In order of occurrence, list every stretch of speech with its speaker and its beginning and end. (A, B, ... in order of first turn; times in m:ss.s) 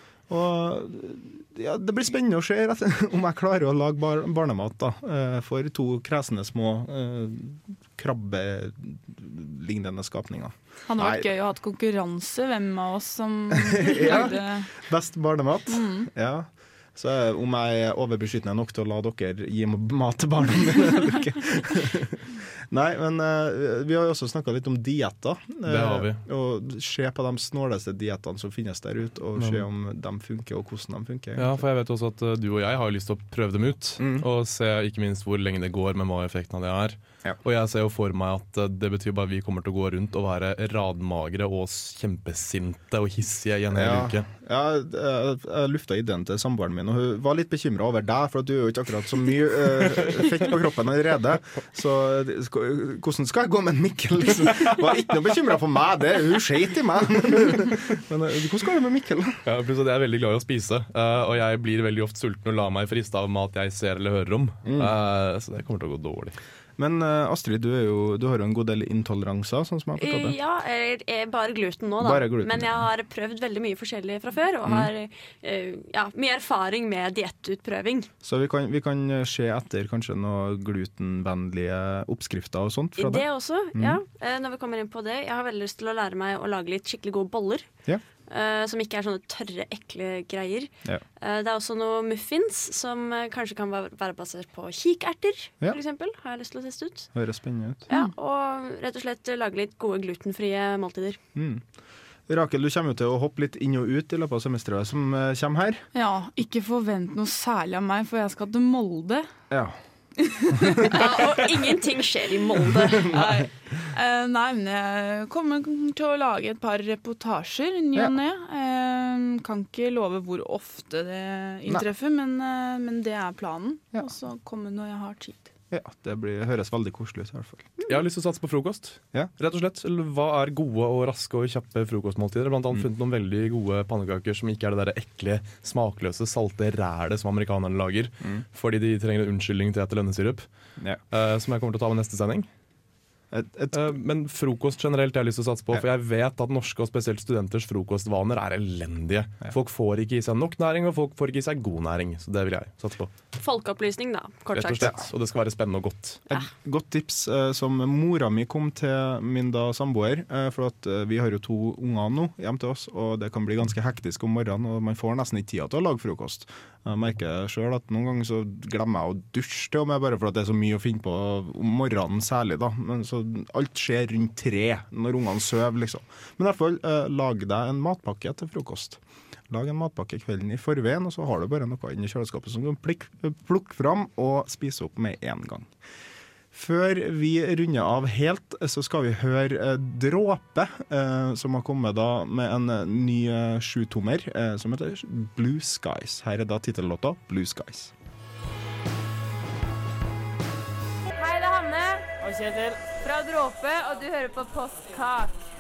0:00.3-0:11.3 A
0:10.9-0:14.8 B
0:13.5-0:31.6 A
0:15.7-0:16.1 B
0:25.6-0:26.2 C
0:29.4-0:29.6 C
0:31.4-0:44.2 C
0:34.0-0:34.3 A
0:43.7-0:59.4 A
0:59.4-1:06.4 C
1:04.6-1:04.9 A
1:06.8-1:10.4 A
1:10.0-1:18.1 D
1:12.0-1:12.8 A
1:14.6-1:14.9 A
1:18.2-1:24.0 A
1:23.0-1:27.7 D
1:28.3-1:37.1 D
1:37.1-1:37.9 A
1:37.9-1:41.2 D
1:41.4-1:41.6 A
1:42.3-1:45.9 A
1:45.9-1:49.3 B
1:49.5-1:49.8 A
1:50.2-1:51.0 B
1:50.6-1:50.9 A
1:50.9-1:53.1 D
1:52.9-1:53.3 A
1:53.1-2:05.5 B
2:05.7-2:07.7 A
2:07.9-2:20.4 C
2:21.1-2:22.5 C
2:23.3-2:23.8 A
2:23.7-2:33.1 C
2:33.4-2:35.0 D
2:34.5-2:36.2 C
2:36.3-3:05.7 A
3:06.5-3:17.9 A
3:21.2-3:25.4 E